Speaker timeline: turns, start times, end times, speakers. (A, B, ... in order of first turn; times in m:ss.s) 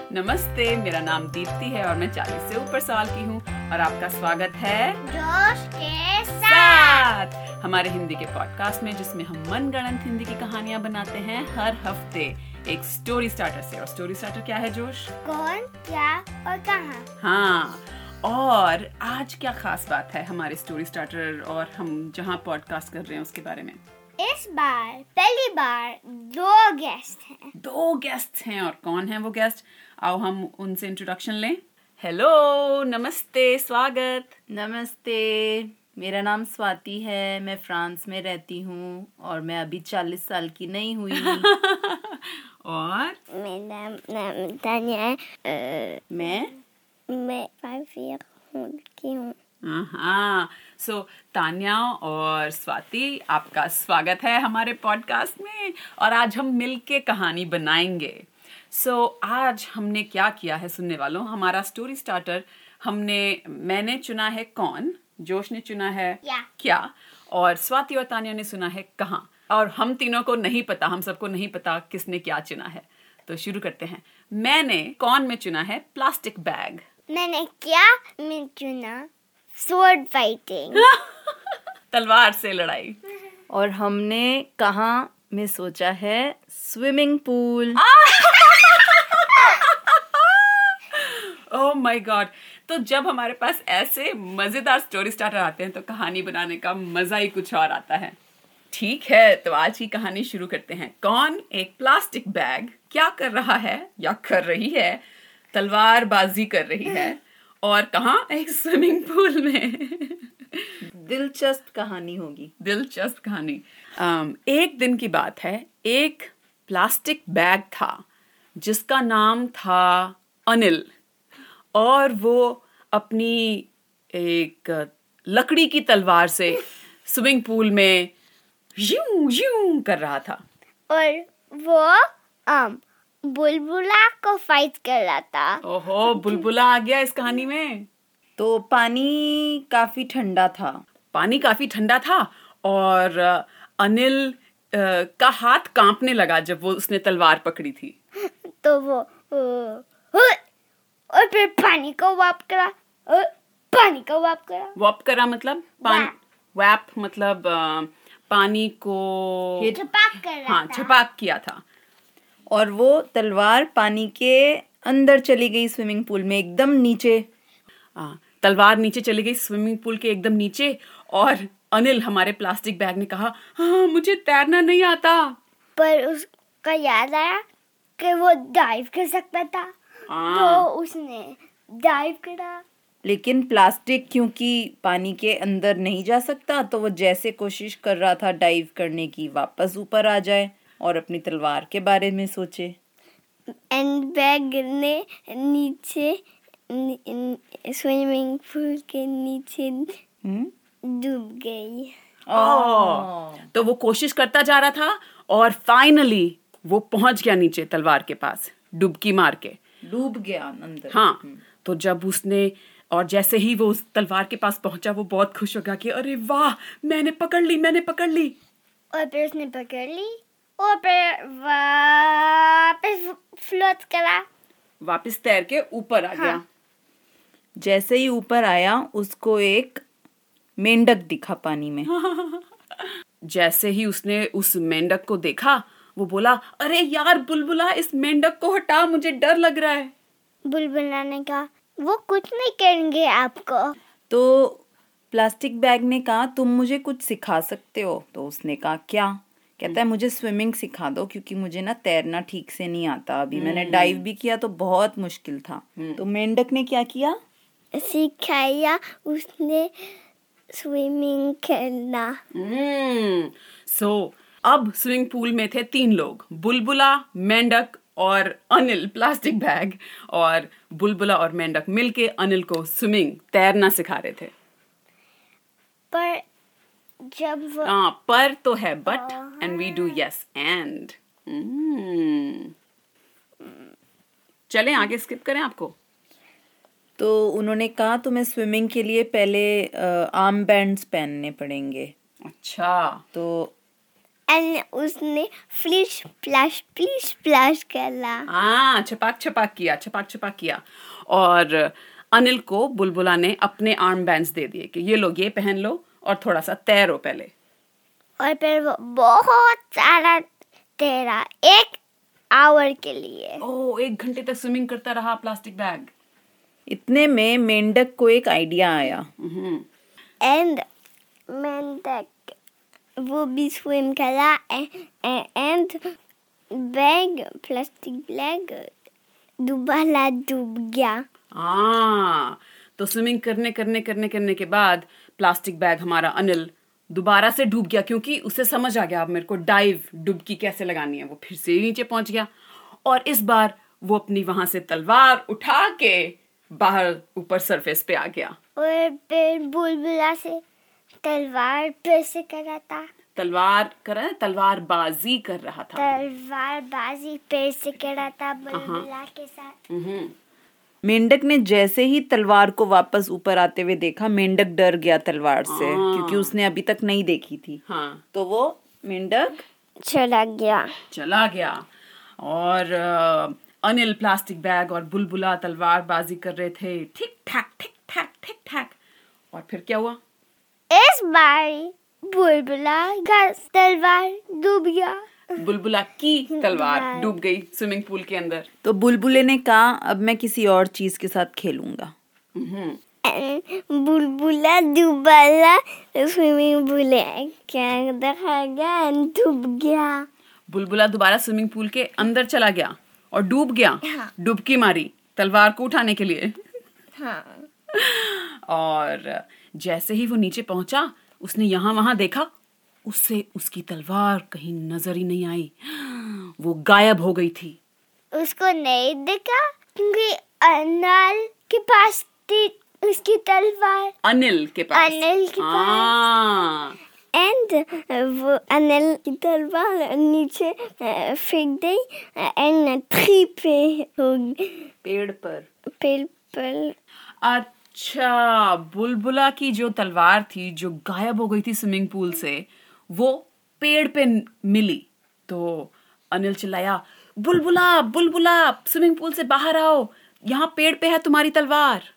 0:00.1-0:05.0 A
0:05.0-0:07.0 B
0:06.5-0:15.1 A
0:15.2-0:17.1 B
0:17.2-0:23.8 A
0:24.2-0:27.5 B
0:27.6-0:34.3 A
0:34.5-0:41.5 C
0:41.2-0:43.2 A
0:43.3-0:46.5 B
0:46.1-0:46.5 C
0:47.1-0:49.4 B
0:49.6-1:16.8 A
1:17.1-1:20.9 B
1:21.9-1:23.0 A
1:23.5-1:27.8 C
1:27.8-1:38.2 A
1:38.7-1:45.0 A
1:45.5-1:50.6 A
1:50.9-1:52.5 C
1:52.6-1:58.0 A
1:58.6-2:00.9 A
2:01.8-2:08.1 A
2:08.8-2:10.4 A
2:10.9-2:15.6 B
2:15.6-2:17.9 A
2:18.4-2:20.8 C
2:21.1-2:28.0 A
2:28.2-2:30.4 B
2:31.1-2:34.8 B
2:34.8-2:39.8 A
2:35.8-2:36.1 B
2:39.7-2:40.9 B
2:40.5-2:41.6 A
2:42.5-2:47.2 C
2:48.0-2:55.4 A
2:55.8-2:57.4 B
2:58.0-2:59.7 B
3:00.1-3:00.7 A
3:00.3-3:02.6 B
3:03.0-3:12.8 C
3:13.7-3:19.9 B
3:20.2-3:20.5 C
3:20.9-3:21.9 B
3:22.3-3:23.5 C
3:22.3-3:29.6 A
3:29.8-3:31.4 C
3:30.9-3:38.4 A
3:38.9-3:44.3 B
3:44.8-3:46.4 A
3:46.2-3:46.4 B
3:47.6-3:49.8 C
3:50.6-3:51.9 C
3:51.9-3:52.5 A
3:53.3-3:59.9 A
4:00.5-4:03.8 B
4:04.1-4:17.2 C
4:13.3-4:14.0 A
4:17.8-4:20.0 B
4:20.5-4:22.2 B
4:22.3-4:34.3 A
4:35.9-4:36.2 B
4:37.1-4:37.7 B
4:37.6-4:42.5 A
4:38.9-4:40.0 B
4:44.5-4:45.8 A
4:47.0-4:51.9 C
4:52.3-4:53.0 A
4:53.1-4:53.5 C
4:54.3-4:58.3 B
4:58.3-5:07.3 A
5:08.2-5:10.3 B
5:10.8-5:11.8 B
5:12.4-5:13.4 B
5:13.4-5:15.9 A
5:16.7-5:19.1 C
5:19.2-5:19.6 A
5:20.2-5:20.6 B
5:21.3-5:22.4 B
5:23.0-5:25.8 B
5:26.6-5:28.7 B
5:29.4-5:31.0 B
5:31.4-5:42.3 A
5:42.8-5:48.4 A
5:48.6-5:50.4 B
5:51.0-5:52.9 B
5:53.2-5:55.9 A
5:55.8-5:59.5 B
5:58.5-5:58.9 A
5:59.7-6:00.1 A
6:00.8-6:07.6 C
6:05.5-6:06.4 A
6:07.7-6:08.0 A
6:08.1-6:09.4 C
6:09.8-6:10.7 B
6:10.9-6:11.6 A
6:12.2-6:18.8 A
6:19.3-6:20.0 A
6:20.7-6:25.0 B
6:25.4-6:28.5 A
6:26.3-6:27.2 B
6:28.6-6:31.9 C
6:32.4-6:32.8 A
6:33.0-6:40.1 B
6:40.5-6:46.4 A
6:47.0-6:47.5 B
6:47.7-6:52.3 A
6:52.9-6:57.6 A
6:58.1-7:03.9 B
7:04.0-7:06.8 A
7:04.7-7:06.0 B
7:07.2-7:14.7 B
7:14.8-7:15.5 C
7:15.8-7:16.8 B
7:17.2-7:31.9 A